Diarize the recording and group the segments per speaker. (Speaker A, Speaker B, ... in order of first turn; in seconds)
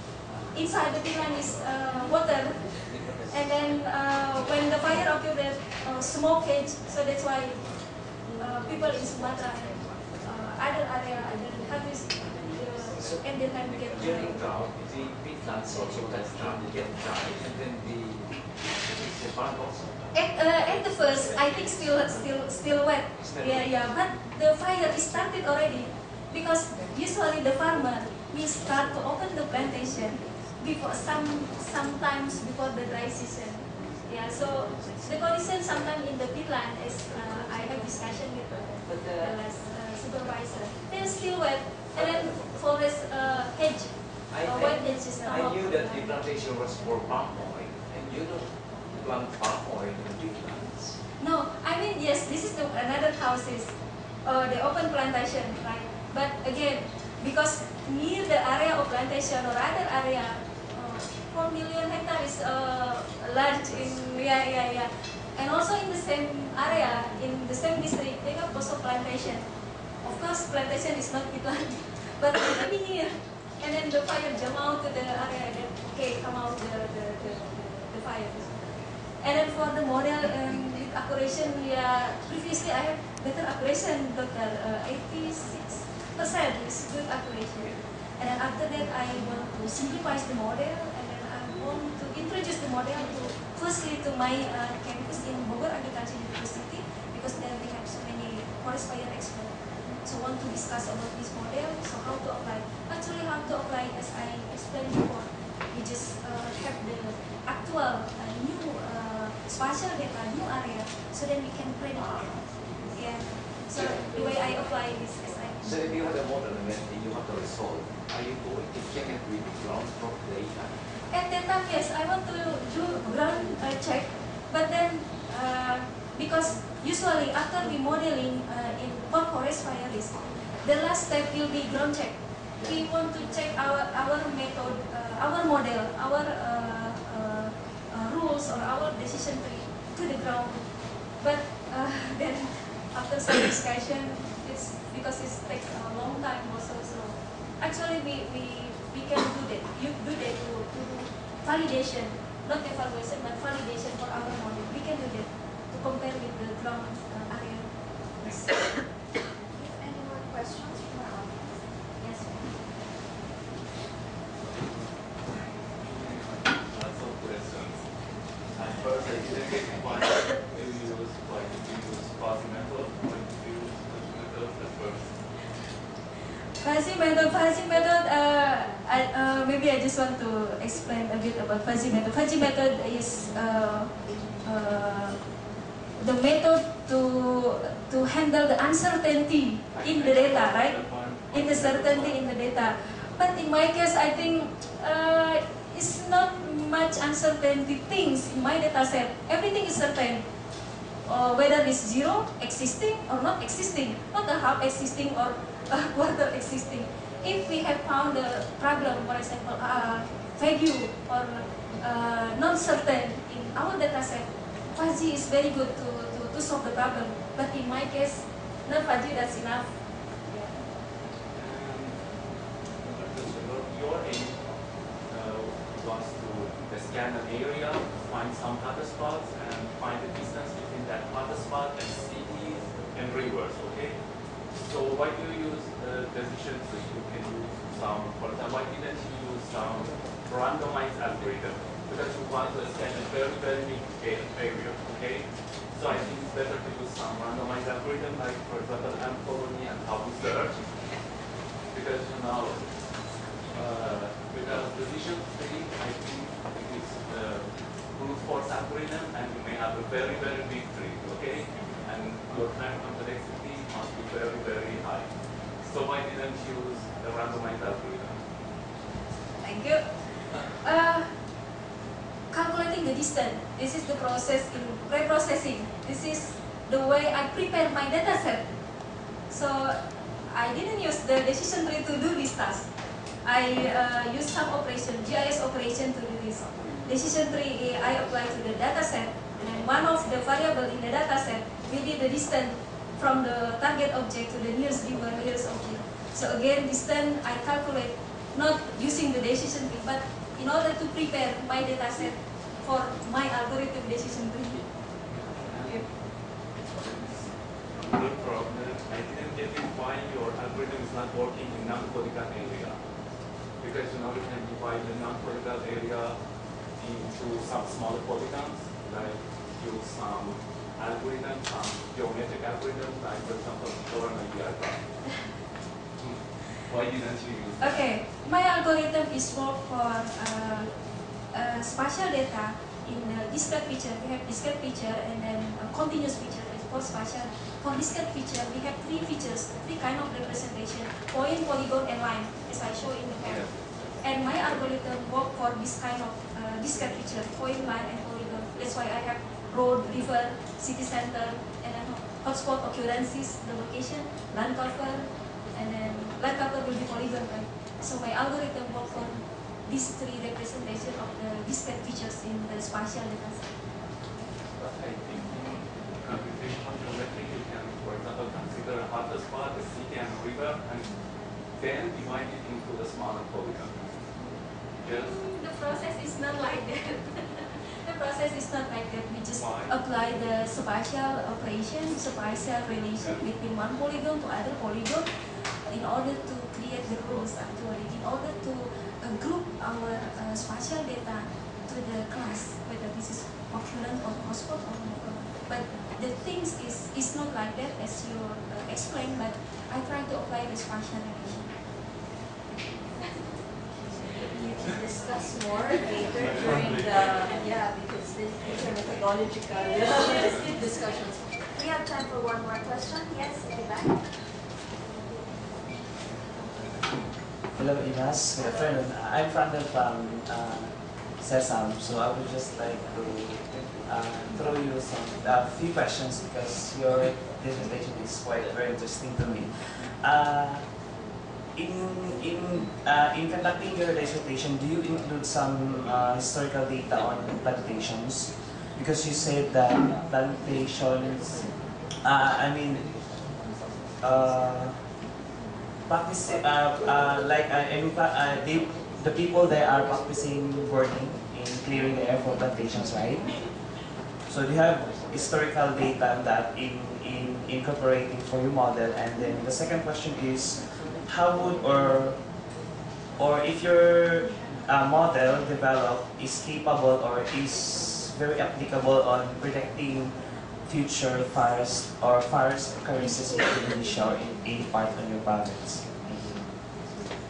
Speaker A: 0.5-14.4, 20.1-46.1, 51.2-69.5, 70.0-112.4, 112.9-115.8, 121.1-158.7, 162.0-162.3, 176.6-185.2, 186.0-190.8, 191.3-200.2, 201.0-219.7, 269.4-271.1, 272.3-278.5, 279.3-282.7, 283.2-304.7, 327.6-330.7, 331.3-363.5, 374.8-385.1, 385.6-401.5, 409.6-410.9
Speaker B: 13.0-19.9, 23.2-23.7, 44.3-51.0, 113.7-114.4, 115.6-120.7
Speaker C: 159.4-162.3, 404.1-414.1, 418.4-418.7, 472.9-473.5
Speaker D: 164.4-175.1, 189.7-192.4, 221.3-251.0, 251.7-268.2, 305.1-324.9, 326.0-327.9, 343.2-343.9, 364.5-374.0, 374.8-375.2, 379.4-379.8, 406.1-407.3
Speaker E: 417.5-430.8, 431.5-443.3, 444.0-444.9, 445.9-453.7, 454.2-462.2, 463.1-476.5